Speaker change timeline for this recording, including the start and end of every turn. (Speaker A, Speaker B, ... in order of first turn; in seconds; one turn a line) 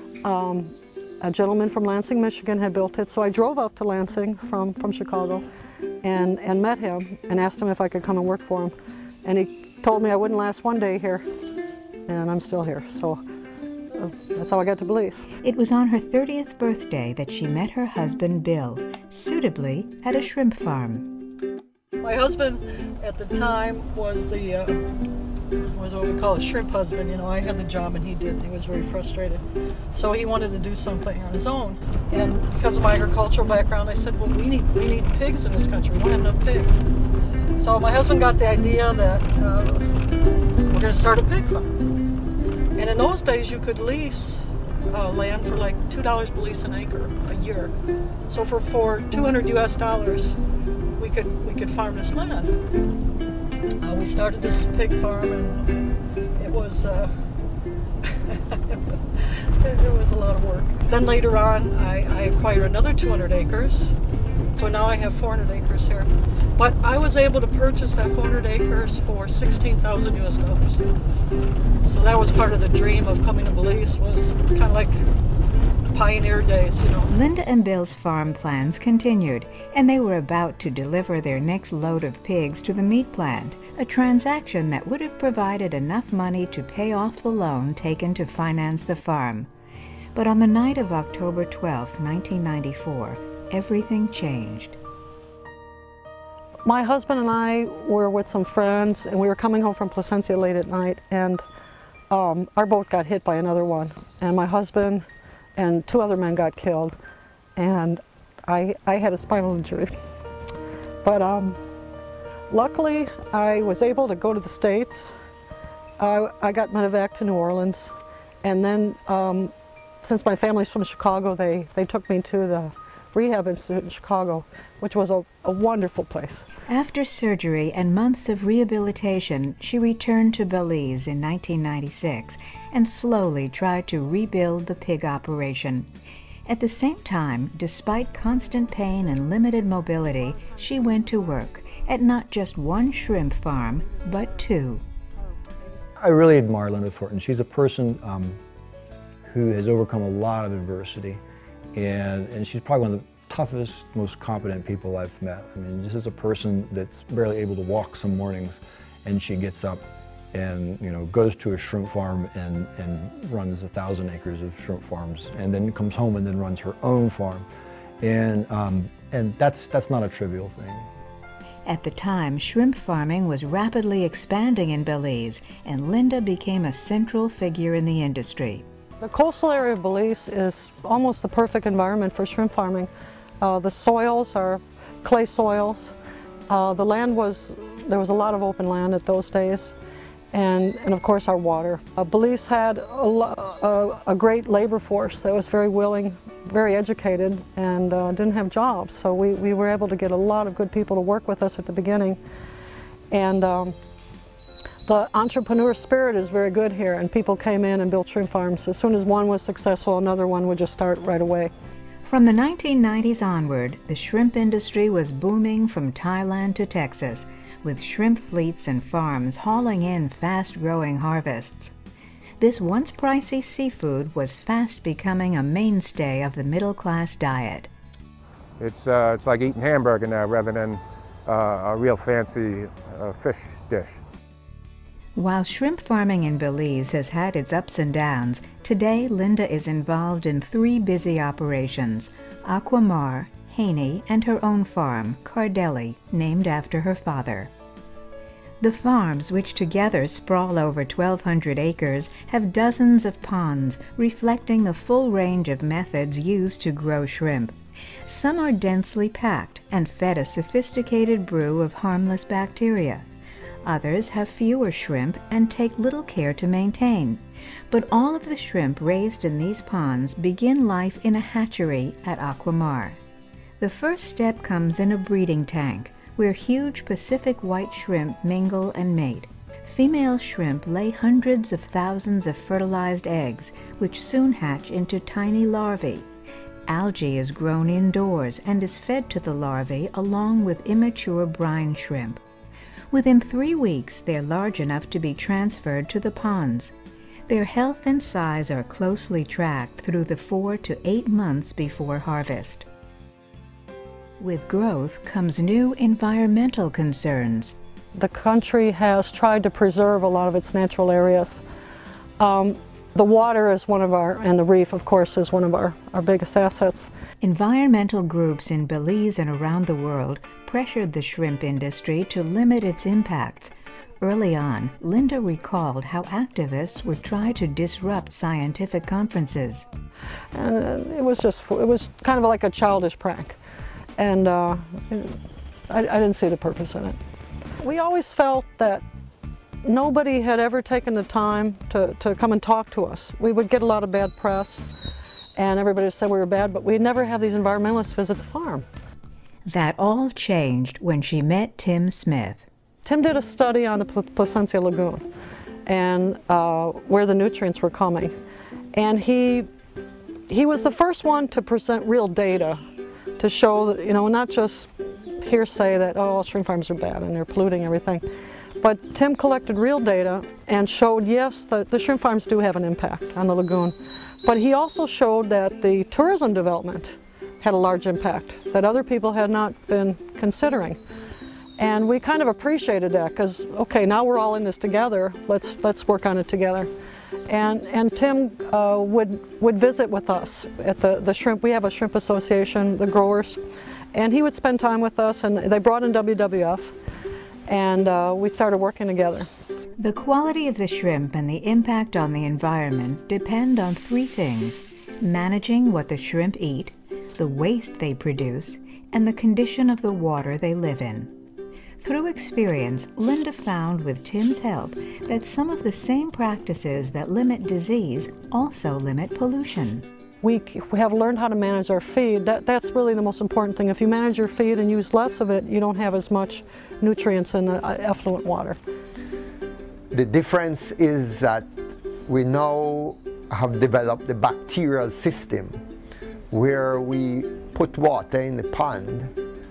Speaker A: 0.2-5.4
Speaker A: 6.0-11.2
Speaker A: 12.1-13.2
Speaker A: 13.9-15.3
Speaker B: 15.4-21.1
Speaker A: 22.0-24.8
Speaker A: 25.7-36.8
Speaker A: 37.5-39.9
Speaker A: 40.6-41.7
Speaker A: 42.7-47.7
Speaker A: 48.3-50.4
Speaker A: 51.0-52.5
Speaker A: 53.8-55.7
Speaker A: 56.4-57.2
Speaker A: 58.0-58.8
Speaker A: 59.5-63.9
Speaker A: 64.5-70.9
Speaker A: 71.8-75.0
Speaker A: 75.8-77.1
Speaker B: 77.1-89.5
Speaker B: 90.1-94.8
Speaker A: 96.6-101.4
Speaker A: 102.1-105.0
Speaker A: 105.5-106.9
Speaker A: 107.5-109.9
Speaker A: 111.0-111.6
Speaker A: 112.5-115.1
Speaker A: 116.0-126.5
Speaker B: 126.7-135.9
Speaker B: 136.5-144.8
Speaker C: 146.0-148.4
Speaker C: 149.2-151.2
Speaker C: 151.7-159.8
Speaker C: 160.3-167.4
Speaker C: 168.0-170.9
Speaker B: 171.6-178.6
Speaker A: 179.0-182.9
Speaker A: 183.4-185.9
Speaker A: 186.5-189.7
Speaker A: 190.3-202.2
Speaker A: 203.1-203.8
Speaker A: 204.8-211.5
Speaker B: 212.0-221.7
Speaker B: 222.4-227.7
Speaker D: 228.6-234.0
Speaker B: 235.2-247.5
Speaker B: 248.6-263.0
Speaker B: 263.6-273.0
Speaker B: 273.6-286.1
Speaker B: 286.7-292.2
Speaker B: 292.9-296.7
Speaker B: 297.3-302.7
Speaker B: 304.2-307.6
Speaker A: 307.9-311.4
Speaker A: 312.2-316.9
Speaker B: 317.2-329.7
Speaker A: 330.3-333.4
Speaker A: 334.0-335.1
Speaker A: 335.7-337.0
Speaker A: 337.6-338.8
Speaker A: 339.6-344.6
Speaker A: 345.4-348.6
Speaker B: 349.4-352.4
Speaker A: 352.8-355.0
Speaker A: 355.6-358.1
Speaker A: 358.7-359.5
Speaker A: 360.3-362.6
Speaker A: 363.2-368.0
Speaker A: 368.6-380.8
Speaker A: 381.6-386.7
Speaker A: 387.3-393.4
Speaker A: 393.9-396.7
Speaker A: 397.5-399.3
Speaker B: 399.8-411.1
Speaker B: 411.8-419.9
Speaker A: 420.2-428.6
Speaker E: 429.9-431.5
Speaker E: 432.1-435.6
Speaker E: 436.3-439.1